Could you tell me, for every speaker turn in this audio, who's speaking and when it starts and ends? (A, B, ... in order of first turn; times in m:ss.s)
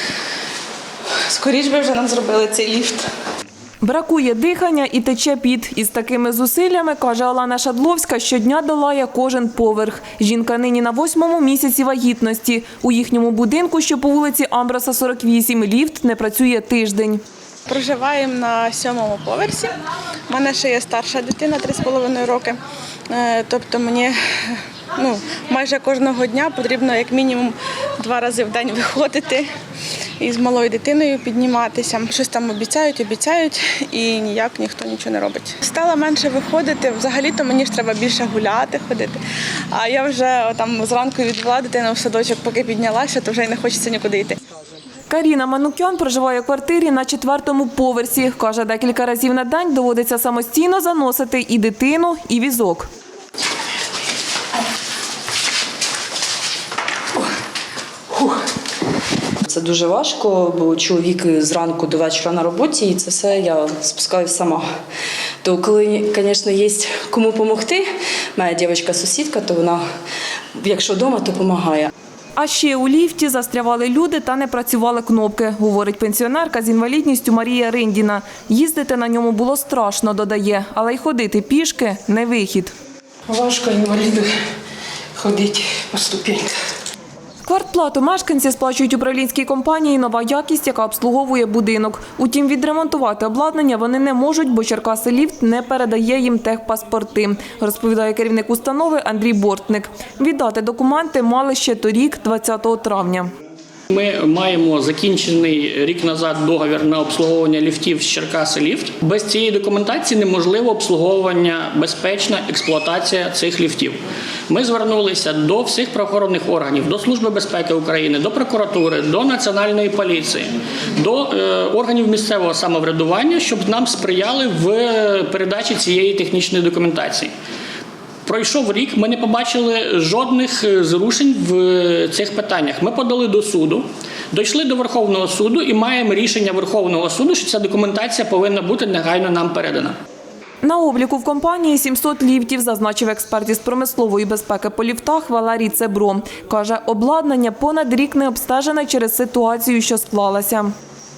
0:01.3-0:03.0 A
0:03.8-0:17.2 B
0:17.7-0:19.7 A
0:20.3-0:22.6 A
0:23.1-0:24.1 A
0:25.0-0:29.4 A
0:30.2-0:39.2 A
0:39.7-0:44.4 A
0:45.1-0:52.9 B
0:59.5-1:04.7 C
1:05.4-1:09.8 C
1:10.6-1:11.9 C
1:12.4-1:22.7 B
1:23.3-1:24.3 D
1:25.2-1:26.6 D
1:27.4-1:43.3 B
1:43.9-2:07.3 E
2:08.2-2:20.0 E
2:20.6-2:30.7 B